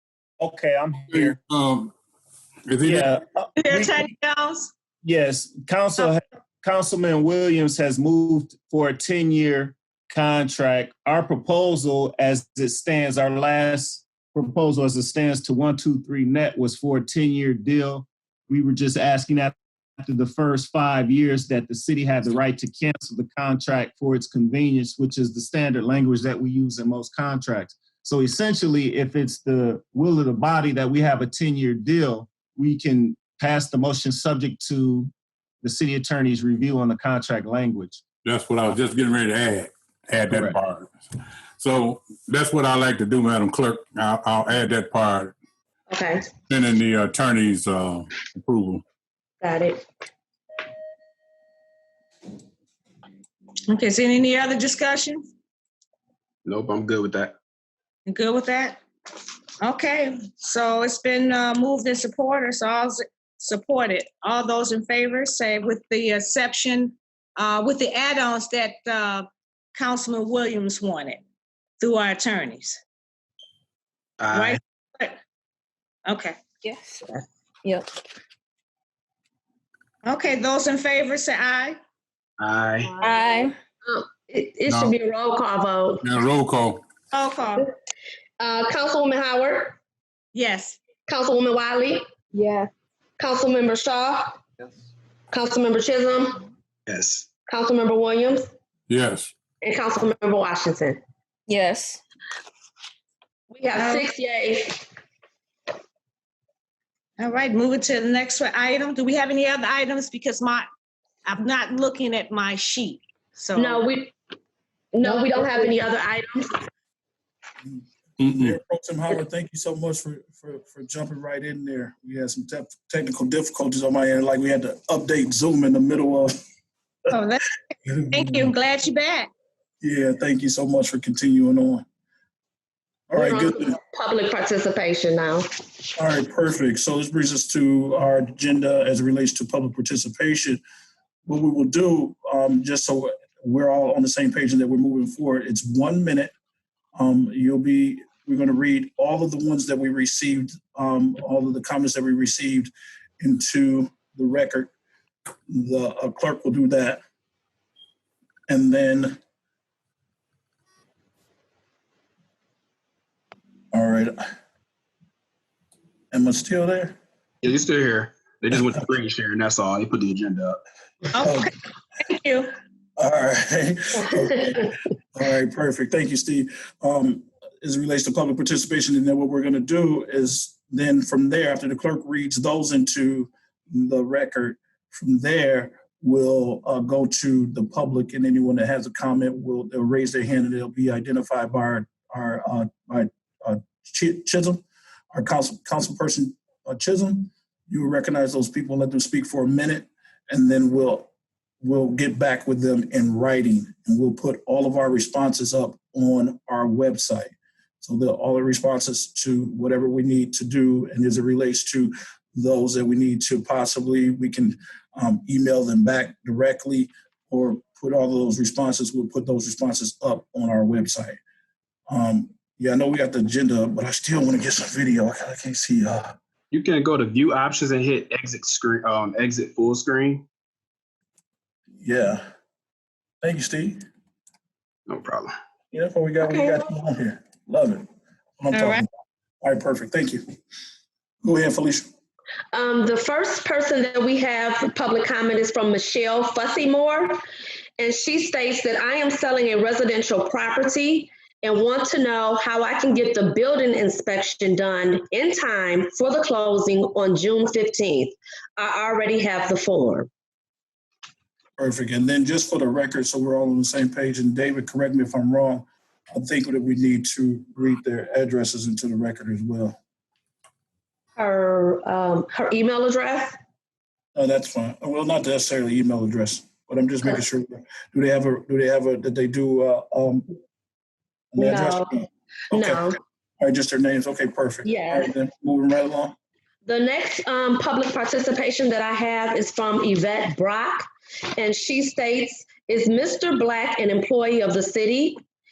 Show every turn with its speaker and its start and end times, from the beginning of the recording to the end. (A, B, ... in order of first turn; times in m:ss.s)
0:00.4-0:01.4 A
0:01.1-0:01.9 B
0:02.7-0:03.1 B
0:02.9-0:03.9 A
0:03.6-0:04.7 C
0:05.0-0:35.1 A
0:35.6-0:38.0 A
0:38.2-0:40.9 B
0:40.3-0:40.6 A
0:41.6-0:45.4 B
0:45.9-0:46.2 D
0:46.5-0:48.8 B
0:49.4-0:49.8 D
0:53.7-0:55.3 C
0:56.4-0:57.4 E
0:58.1-0:58.8 C
0:59.6-1:11.2 C
1:11.8-1:12.8 C
1:14.2-1:14.6 E
1:14.3-1:15.2 C
1:16.1-1:16.4 C
1:16.6-1:17.1 F
1:17.6-1:17.9 F
1:20.0-1:21.8 C
1:22.4-1:23.0 E
1:23.0-1:23.6 F
1:23.0-1:26.1 D
1:24.7-1:25.0 B
1:26.0-1:26.8 B
1:27.1-1:27.7 C
1:28.4-1:29.8 D
1:30.3-1:30.8 C
1:31.1-1:32.1 D
1:33.2-1:34.4 D
1:35.3-1:36.4 D
1:36.9-1:37.3 E
1:37.5-1:38.4 D
1:38.9-1:39.3 B
1:39.6-1:41.0 D
1:41.5-1:42.0 F
1:43.5-1:44.9 D
1:43.7-1:44.1 C
1:47.2-1:50.7 C
1:51.3-1:53.8 C
1:53.6-1:54.1 D
1:54.9-1:56.6 D
1:57.6-2:06.3 G
1:58.2-1:58.6 B
2:07.1-2:07.6 C
2:07.8-2:08.5 G
2:08.1-2:09.3 C
2:09.8-2:11.8 G
2:13.1-2:13.8 G
2:13.1-2:15.5 D
2:16.0-2:20.6 G
2:21.3-2:26.3 G
2:27.0-2:34.7 G
2:35.5-2:37.0 G
2:38.5-2:39.2 G
2:43.7-2:44.2 G
2:46.1-2:47.0 G
2:47.4-2:50.6 E
2:51.1-2:52.5 C
2:51.2-2:51.5 G
2:53.0-3:21.1 G
3:21.6-3:41.2 G
3:41.9-3:46.1 G
3:46.5-3:50.3 E
3:51.8-3:52.2 G
3:53.2-3:53.8 G
3:54.9-3:55.3 E
3:55.7-3:57.9 G
3:56.2-3:56.6 D
3:58.4-3:58.8 G
3:58.5-3:58.8 C
3:59.4-4:00.2 G
4:01.2-4:01.9 G
4:02.5-4:07.2 D
4:07.8-4:20.1 D
4:21.6-4:29.8 G
4:31.2-4:33.4 D
4:34.2-4:40.3 G
4:41.3-4:46.2 G
4:41.4-4:41.9 D
4:42.5-4:43.0 D
4:44.6-4:45.1 D
4:46.6-4:55.2 D